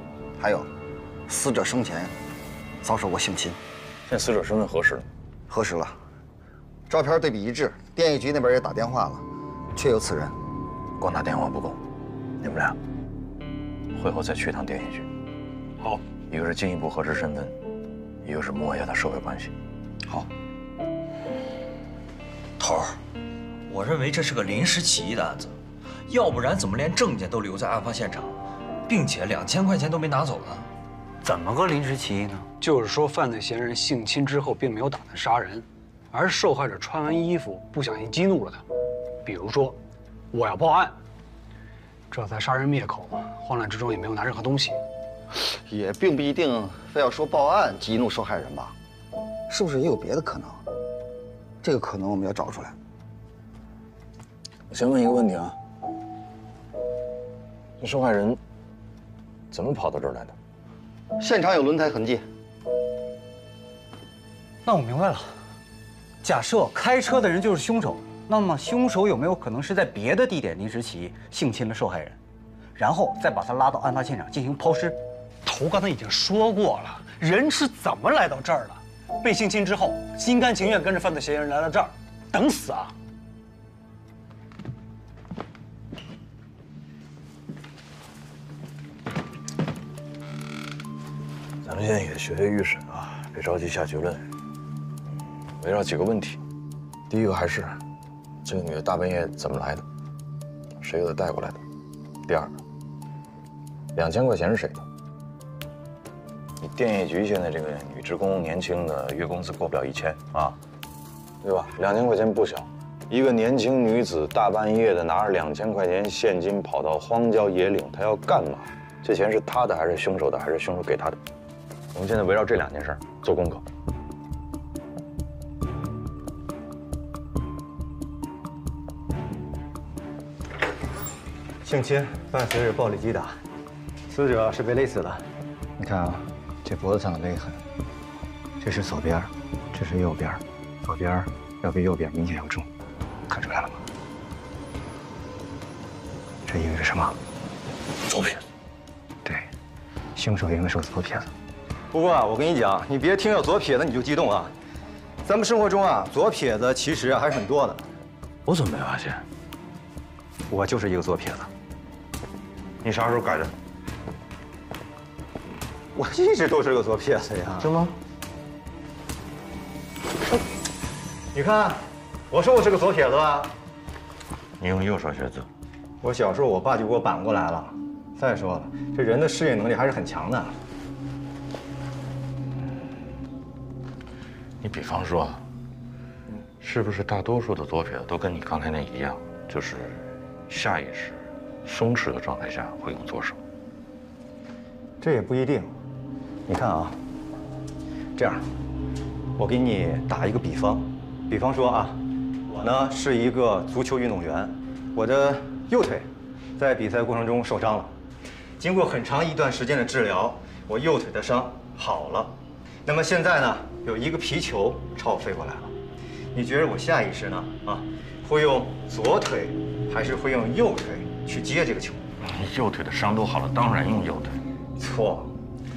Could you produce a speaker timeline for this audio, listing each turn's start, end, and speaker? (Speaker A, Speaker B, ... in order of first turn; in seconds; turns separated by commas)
Speaker A: 0.4-0.7, Speaker A: 1.3-2.1, Speaker A: 2.8-3.6, Speaker B: 4.1-5.1, Speaker A: 5.5-6.0, Speaker A: 6.9-10.3, Speaker B: 11.0-11.8, Speaker B: 12.4-12.8, Speaker B: 13.9-15.1, Speaker B: 16.3-17.6, Speaker B: 18.2-19.5, Speaker C: 23.7-25.6, Speaker C: 26.1-28.4, Speaker C: 28.9-30.7, Speaker D: 31.2-32.5, Speaker E: 32.6-38.6, Speaker E: 39.2-39.8, Speaker E: 40.3-41.0, Speaker E: 42.1-44.8, Speaker A: 45.7-48.8, Speaker A: 49.5-50.6, Speaker A: 51.6-52.8, Speaker B: 54.7-55.6, Speaker B: 57.8-58.4, Speaker B: 59.5-60.4, Speaker A: 61.2-62.2, Speaker D: 64.7-65.3, Speaker D: 66.2-72.2, Speaker D: 72.8-75.0, Speaker E: 75.5-82.9, Speaker B: 91.6-94.2, Speaker B: 95.6-96.4, Speaker B: 97.1-97.8, Speaker B: 98.5-99.8, Speaker B: 100.8-101.6, Speaker B: 102.3-102.5, Speaker B: 104.0-104.8, Speaker B: 106.6-110.6, Speaker B: 111.4-121.2, Speaker B: 121.9-123.6, Speaker F: 131.6-133.4, Speaker F: 134.1-135.2, Speaker F: 135.8-137.6, Speaker F: 138.6-142.7, Speaker F: 143.3-143.8, Speaker F: 146.4-147.2, Speaker B: 148.1-148.4, Speaker F: 149.2-149.5, Speaker F: 150.2-151.3, Speaker F: 151.9-154.5, Speaker F: 155.2-157.9, Speaker B: 158.5-159.2, Speaker F: 160.5-161.5, Speaker B: 162.8-163.5, Speaker F: 165.9-167.7, Speaker B: 167.6-167.9, Speaker F: 171.3-173.5, Speaker B: 174.6-175.5, Speaker F: 176.0-180.6, Speaker B: 184.6-185.4, Speaker B: 186.6-193.4, Speaker F: 195.0-195.8, Speaker F: 196.5-197.0, Speaker F: 198.2-198.5, Speaker F: 199.4-202.0, Speaker F: 202.5-207.9, Speaker F: 208.6-215.7, Speaker F: 216.3-222.0, Speaker B: 222.2-224.4, Speaker F: 224.8-225.3